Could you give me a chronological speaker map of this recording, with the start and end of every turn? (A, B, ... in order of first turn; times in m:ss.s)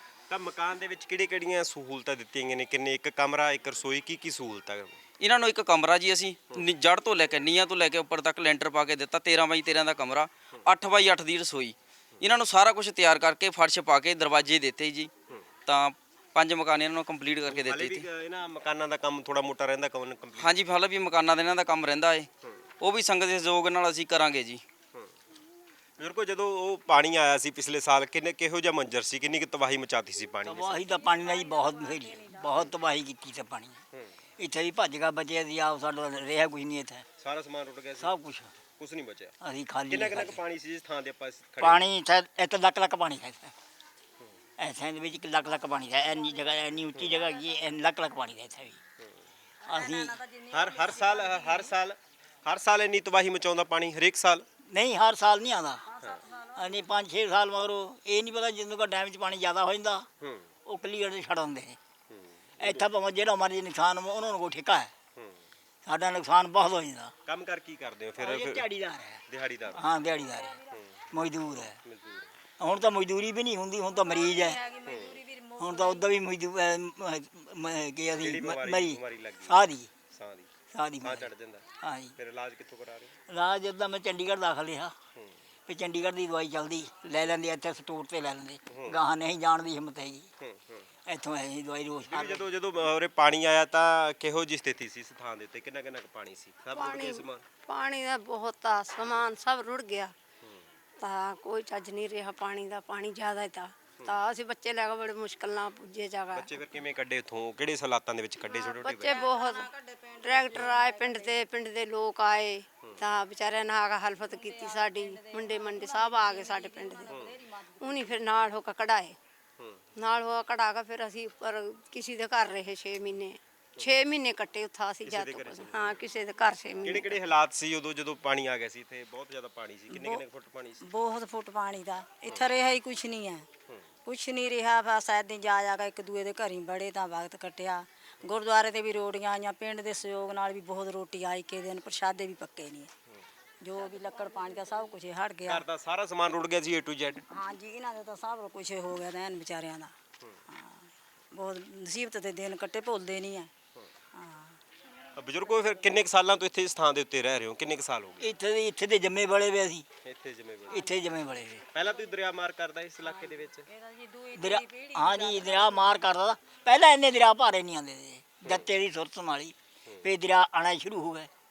0:00.3-0:05.0 A
0:05.2-0:15.1 B
0:15.6-0:18.1 B
0:17.5-0:20.5 A
0:20.4-0:22.3 B
0:22.8-0:24.6 B
0:26.0-0:30.8 A
0:30.4-0:33.8 C
0:30.9-0:31.5 D
0:34.4-0:37.0 C
0:37.2-0:38.1 A
0:38.0-0:38.5 C
0:38.8-0:39.3 A
0:39.4-0:40.4 C
0:39.9-0:41.8 A
0:41.6-0:43.5 C
0:44.6-0:48.8 C
0:49.6-0:50.3 C
0:49.7-0:51.5 D
0:50.5-0:54.4 A
0:54.7-1:00.1 C
1:00.2-1:00.5 A
1:00.6-1:01.8 C
1:02.1-1:02.9 A
1:02.6-1:04.9 C
1:05.8-1:07.1 C
1:07.2-1:08.6 A
1:08.2-1:11.8 C
1:09.3-1:09.8 A
1:11.8-1:12.3 A
1:12.6-1:14.7 C
1:14.1-1:16.0 D
1:14.7-1:15.2 A
1:15.6-1:19.9 C
1:18.2-1:21.6 A
1:20.7-1:21.3 C
1:21.8-1:22.1 C
1:22.2-1:23.1 A
1:23.3-1:24.9 C
1:25.7-1:30.3 C
1:28.7-1:29.0 A
1:30.4-1:30.9 A
1:31.1-1:32.5 C
1:32.1-1:37.4 A
1:36.8-1:40.1 E
1:41.0-1:46.5 E
1:46.3-1:49.3 A
1:48.8-1:57.2 E
1:50.7-1:51.1 D
1:54.4-1:58.2 D
1:57.1-1:57.4 A
1:57.8-1:59.2 E
1:59.6-1:59.8 A
2:00.0-2:07.2 E
2:05.1-2:06.0 A
2:06.8-2:10.8 A
2:09.9-2:10.2 D
2:10.8-2:13.4 D
2:14.1-2:22.9 D
2:23.6-2:25.6 D
2:25.4-2:27.2 A
2:27.3-2:29.9 D
2:30.5-2:33.5 D
2:34.2-2:34.6 D
2:35.2-2:38.3 A
2:38.2-2:39.8 C
2:40.0-2:40.9 A
2:40.7-2:41.6 C
2:41.7-2:43.7 A
2:43.7-2:46.0 D
2:44.3-2:51.3 C
2:48.4-2:48.8 A